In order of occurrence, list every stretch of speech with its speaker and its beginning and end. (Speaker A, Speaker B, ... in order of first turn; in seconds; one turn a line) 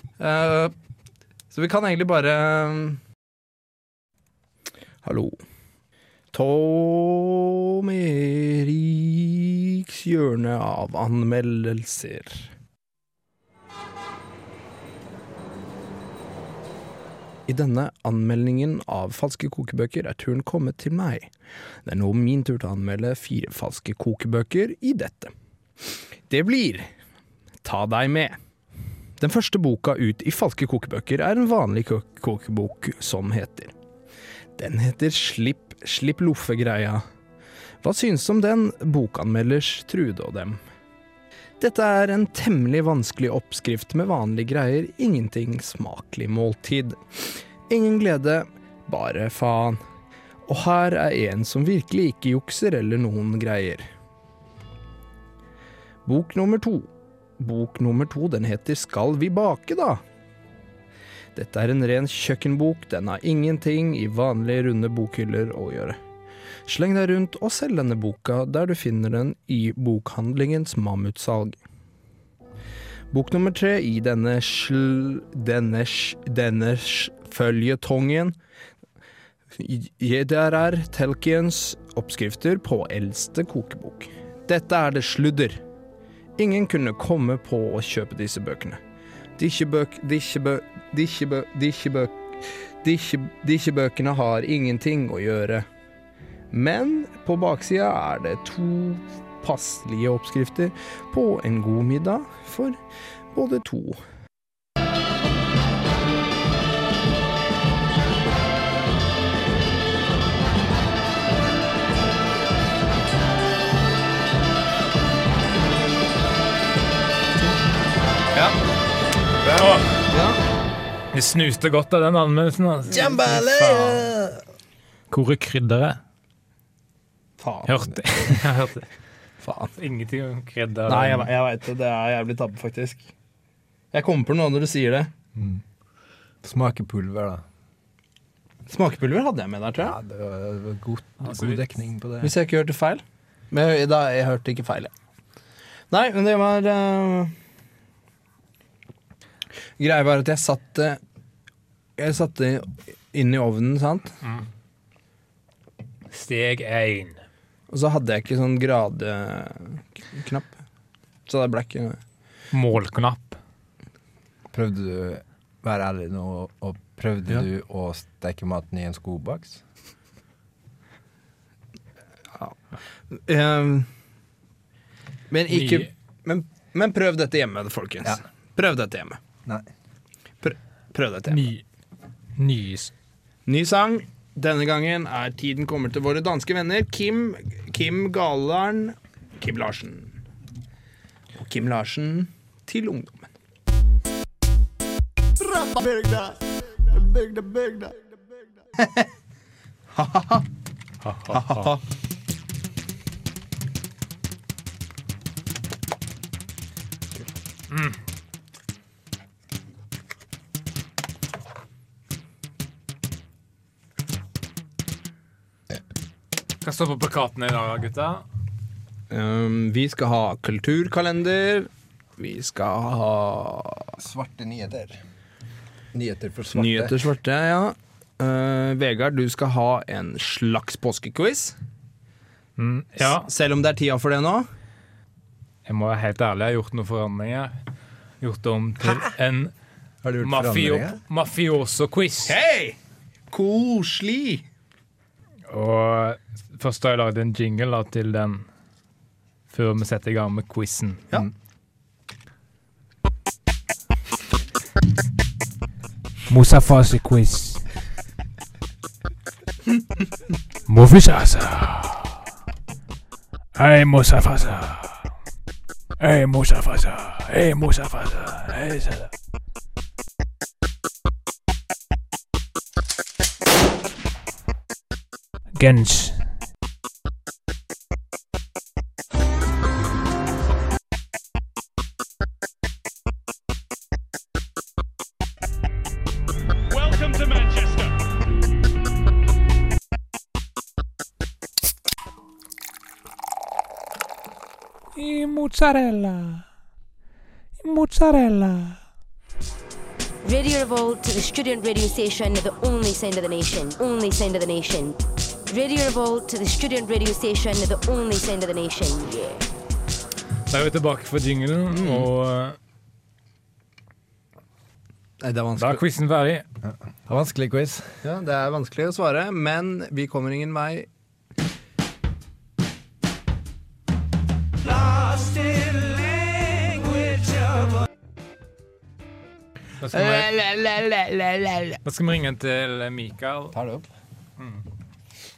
Speaker A: 0.2-0.7
Speaker A: 1.5-3.0
Speaker A: 5.0-5.4
Speaker A: 6.3-12.5
Speaker A: 17.5-21.3
Speaker A: 21.8-25.3
Speaker A: 26.3-26.9
Speaker A: 27.6-28.4
Speaker A: 29.2-33.7
Speaker A: 34.6-37.0
Speaker A: 37.8-40.6
Speaker A: 41.6-49.8
Speaker A: 50.5-53.9
Speaker A: 56.0-60.0
Speaker A: 61.4-66.0
Speaker A: 66.7-71.6
Speaker A: 73.1-78.3
Speaker A: 79.5-85.6
Speaker A: 86.4-88.8
Speaker A: 89.4-95.7
Speaker A: 96.5-102.8
Speaker A: 103.3-104.0
Speaker B: 119.4-119.8
Speaker C: 119.6-119.9
Speaker A: 120.1-120.4
Speaker C: 121.1-124.0
Speaker B: 122.9-124.4
Speaker C: 125.1-126.0
Speaker A: 127.4-127.7
Speaker C: 127.7-128.9
Speaker A: 129.4-129.7
Speaker C: 129.8-131.3
Speaker A: 130.9-133.1
Speaker A: 133.9-135.1
Speaker B: 136.4-137.4
Speaker A: 138.7-140.0
Speaker B: 139.8-142.3
Speaker C: 141.2-141.6
Speaker A: 142.2-144.9
Speaker A: 145.9-147.3
Speaker A: 149.8-151.0
Speaker A: 152.0-154.2
Speaker C: 156.1-157.2
Speaker A: 157.7-160.6
Speaker A: 161.3-162.0
Speaker C: 162.5-163.4
Speaker B: 164.5-169.6
Speaker A: 173.1-173.9
Speaker A: 175.3-179.2
Speaker C: 175.5-175.9
Speaker A: 180.4-181.5
Speaker C: 181.3-181.6
Speaker C: 182.4-182.9
Speaker A: 183.5-190.2
Speaker A: 191.4-193.3
Speaker A: 195.5-196.3
Speaker A: 197.0-197.8
Speaker A: 198.8-199.1
Speaker A: 199.9-200.4
Speaker C: 201.0-201.8
Speaker A: 201.3-201.8
Speaker C: 207.7-208.0
Speaker C: 216.6-218.2
Speaker A: 219.1-223.9
Speaker B: 224.0-225.0
Speaker B: 225.9-226.9
Speaker A: 226.5-231.6
Speaker C: 232.6-233.3
Speaker A: 233.0-234.5
Speaker C: 235.7-237.5
Speaker C: 238.2-239.5
Speaker B: 238.8-239.1
Speaker B: 240.0-241.0
Speaker C: 240.2-242.3
Speaker A: 242.2-242.8
Speaker A: 243.3-244.4
Speaker C: 245.5-248.5
Speaker C: 249.5-251.0
Speaker C: 256.3-257.6
Speaker C: 260.7-262.1
Speaker C: 263.6-265.0
Speaker C: 266.0-269.1
Speaker C: 275.6-276.3
Speaker C: 294.9-296.4
Speaker C: 297.6-298.8
Speaker D: 300.2-305.0
Speaker D: 305.5-309.4
Speaker C: 310.5-312.6
Speaker A: 311.7-312.1
Speaker A: 315.2-315.8
Speaker C: 315.6-316.4
Speaker B: 316.6-317.9
Speaker A: 318.0-320.9
Speaker A: 324.7-327.5
Speaker C: 329.8-330.3
Speaker A: 329.9-331.8
Speaker C: 331.8-333.6
Speaker B: 333.5-333.8
Speaker C: 334.4-334.6